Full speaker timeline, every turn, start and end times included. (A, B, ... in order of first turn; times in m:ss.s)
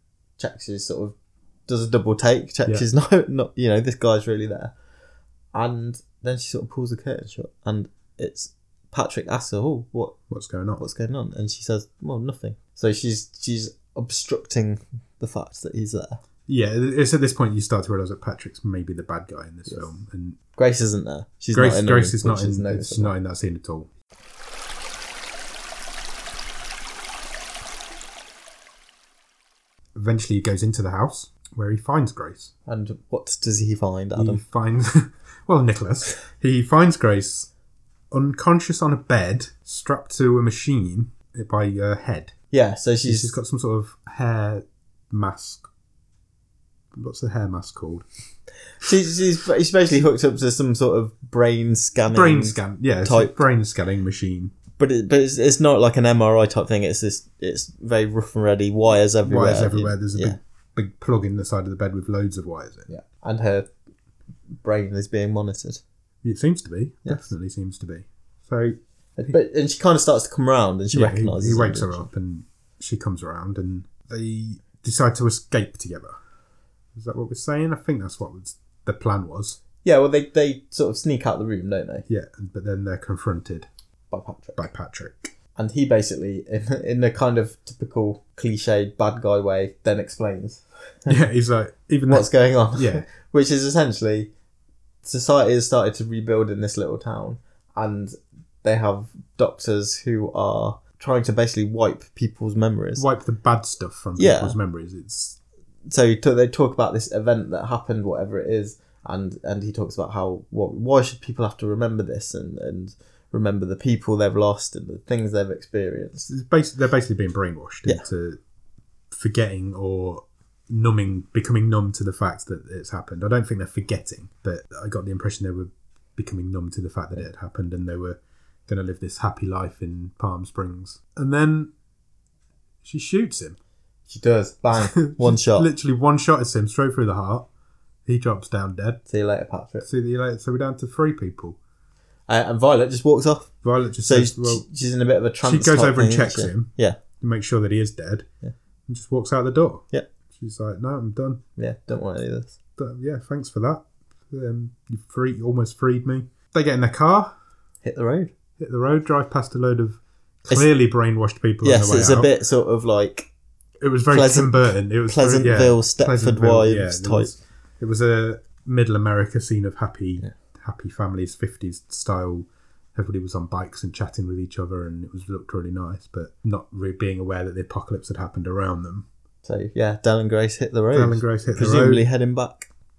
0:00.4-0:01.2 A
0:01.7-0:04.7 A
0:05.5-0:10.2 A
0:10.3-0:10.8 B
0:10.8-0:16.2 A
0:16.5-0:20.4 B
0:20.6-0:23.1 A
0:21.5-0:23.9 B
0:30.0-0:32.5 B
0:32.7-0:34.4 A
0:34.2-0:37.5 B
0:38.1-0:42.3 B
0:42.5-0:43.3 A
0:43.0-0:45.7 B
0:47.0-0:48.0 B
0:48.8-0:53.4 A
0:52.1-0:54.6 B
0:54.8-1:00.4 A
0:59.2-1:02.9 B
1:02.9-1:03.7 A
1:04.6-1:05.8 A
1:06.2-1:09.4 B
1:09.2-1:12.1 A
1:10.9-1:16.2 B
1:17.0-1:19.6 B
1:19.8-1:22.1 A
1:22.1-1:23.7 B
1:24.1-1:24.6 A
1:24.6-1:25.3 B
1:25.6-1:31.1 A
1:31.1-1:33.1 B
1:32.1-1:34.3 A
1:35.0-1:43.1 A
1:43.0-1:45.4 B
1:44.2-1:44.6 A
1:45.9-1:56.3 A
1:56.3-1:58.4 B
1:59.1-2:11.7 B
2:12.8-2:13.6 B
2:14.1-2:15.7 A
2:14.8-2:17.5 B
2:18.1-2:19.0 B
2:19.1-2:19.9 A
2:19.8-2:21.6 B
2:22.3-2:23.5 A
2:23.6-2:24.6 B
2:24.0-2:27.0 A
2:25.4-2:28.3 B
2:28.9-2:31.4 B
2:31.6-2:32.6 A
2:32.8-2:37.3 B
2:37.8-2:38.3 A
2:38.6-2:42.3 B
2:41.6-2:43.3 A
2:43.8-2:59.1 B
2:44.1-2:47.4 A
2:59.4-3:02.7 A
3:00.9-3:02.0 B